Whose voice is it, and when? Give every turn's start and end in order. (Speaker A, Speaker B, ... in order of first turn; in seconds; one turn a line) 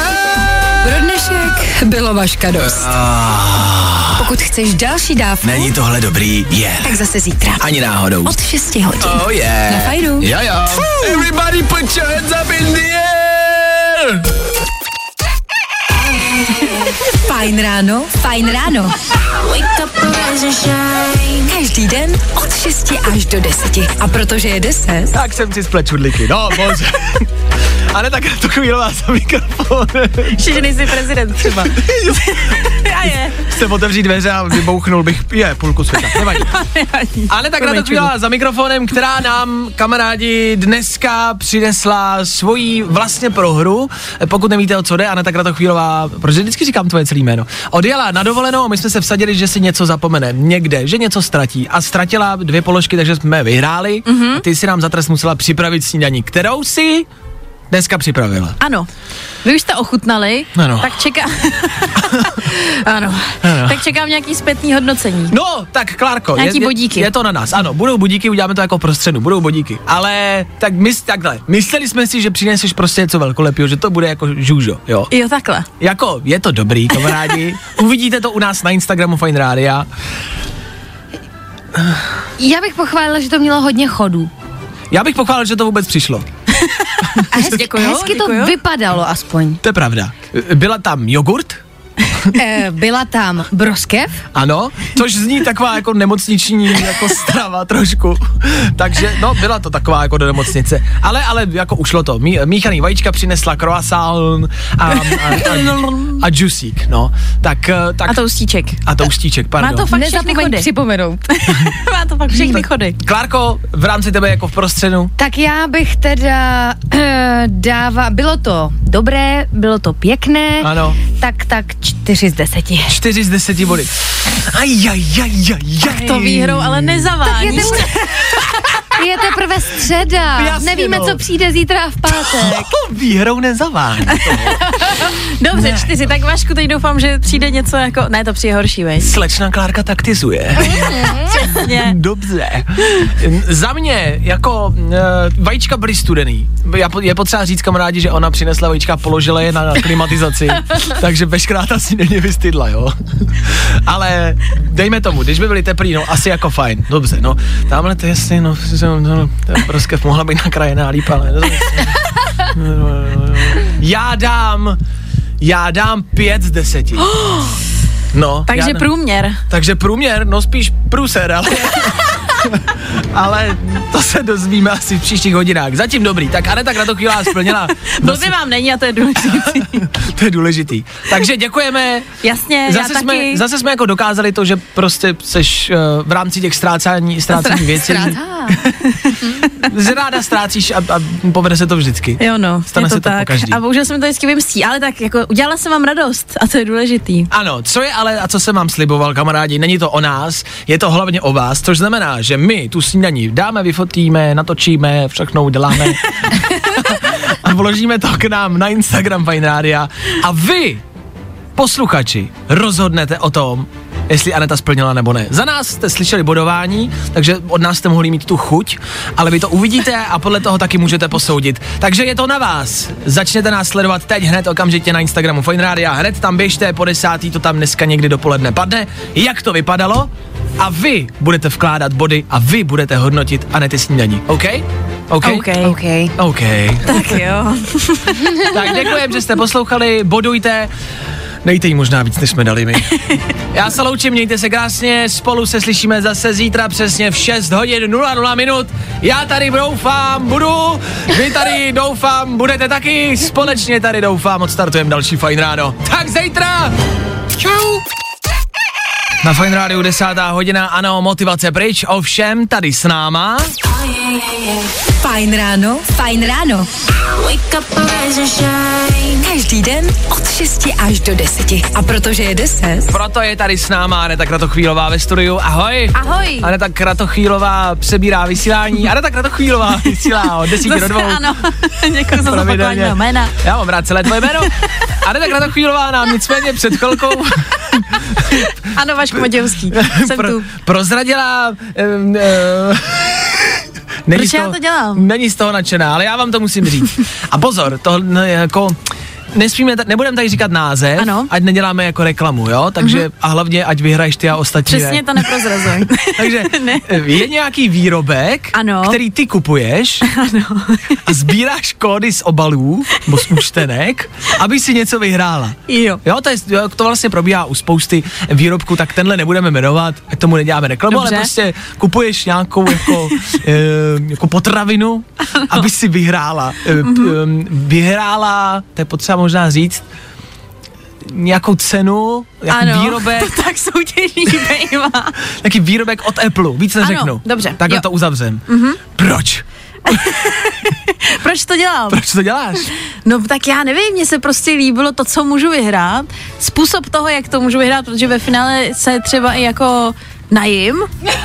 Speaker A: 0.8-2.9
Speaker B: 2.6-4.2
Speaker A: 4.2-5.7
Speaker B: 5.4-7.0
Speaker A: 6.8-7.7
Speaker B: 7.6-8.4
Speaker A: 8.2-11.2
Speaker B: 9.0-14.2
Speaker A: 17.1-18.9
Speaker C: 19.4-21.4
Speaker A: 21.4-25.2
Speaker B: 25.1-27.3
Speaker B: 27.9-30.9
Speaker D: 30.3-33.5
Speaker B: 31.6-36.6
Speaker D: 36.1-38.1
Speaker B: 37.3-57.1
Speaker D: 54.0-54.4
Speaker B: 57.7-58.6
Speaker D: 58.6-58.9
Speaker D: 59.4-65.3
Speaker B: 60.5-60.9
Speaker B: 62.0-62.3
Speaker B: 63.4-63.8
Speaker B: 65.3-75.1
Speaker D: 66.3-67.1
Speaker D: 75.1-75.7
Speaker B: 75.8-79.9
Speaker E: 82.4-84.3
Speaker B: 84.9-86.2
Speaker D: 86.5-88.6
Speaker B: 87.2-87.5
Speaker E: 87.3-89.6
Speaker B: 89.6-91.6
Speaker E: 92.3-94.1
Speaker B: 94.3-108.2
Speaker D: 105.0-106.2
Speaker D: 108.1-108.8
Speaker B: 108.8-109.9
Speaker D: 109.6-110.7
Speaker E: 109.9-111.2
Speaker D: 111.3-113.0
Speaker B: 113.0-115.1
Speaker E: 115.2-122.9
Speaker B: 120.6-121.0
Speaker B: 122.9-127.8
Speaker D: 125.8-128.7
Speaker E: 127.2-128.0
Speaker E: 128.9-132.7
Speaker B: 130.3-131.2
Speaker B: 132.1-134.6
Speaker D: 134.1-139.1
Speaker B: 135.5-135.9
Speaker B: 139.0-141.0
Speaker D: 140.7-142.0
Speaker E: 140.7-141.3
Speaker B: 141.6-164.8
Speaker B: 165.4-167.1
Speaker D: 167.0-167.6
Speaker B: 168.1-168.9
Speaker D: 168.5-169.4
Speaker B: 169.5-178.3
Speaker D: 177.8-179.9
Speaker B: 179.2-182.1
Speaker D: 182.2-183.4
Speaker B: 182.7-188.8
Speaker D: 187.3-188.1
Speaker E: 187.8-188.6
Speaker D: 188.8-189.7
Speaker B: 189.5-193.6
Speaker D: 192.2-197.3
Speaker B: 197.3-210.8
Speaker B: 211.6-235.5
Speaker D: 235.2-235.8
Speaker E: 235.6-236.1
Speaker B: 236.2-237.2
Speaker D: 236.8-238.4
Speaker B: 238.5-240.7
Speaker B: 241.4-256.7
Speaker B: 257.4-257.8
Speaker B: 259.2-263.5
Speaker C: 263.8-264.7
Speaker A: 265.0-266.7
Speaker C: 267.1-269.2
Speaker A: 269.2-273.0
Speaker B: 272.9-281.3
Speaker D: 275.9-276.5
Speaker D: 280.0-283.4
Speaker B: 282.1-288.5
Speaker D: 288.3-290.4
Speaker B: 289.2-298.8
Speaker D: 294.1-295.0
Speaker B: 299.3-310.1
Speaker D: 301.0-301.3
Speaker D: 304.7-307.2
Speaker D: 308.5-309.0
Speaker D: 310.0-311.1
Speaker B: 311.0-329.8
Speaker D: 315.7-316.0
Speaker D: 320.9-321.3
Speaker D: 325.3-325.6
Speaker D: 326.8-327.1
Speaker B: 331.0-333.3
Speaker D: 332.5-335.2
Speaker B: 335.3-340.1
Speaker D: 336.8-337.8
Speaker D: 338.5-338.8
Speaker D: 339.9-342.0
Speaker B: 341.9-342.7
Speaker D: 343.0-350.9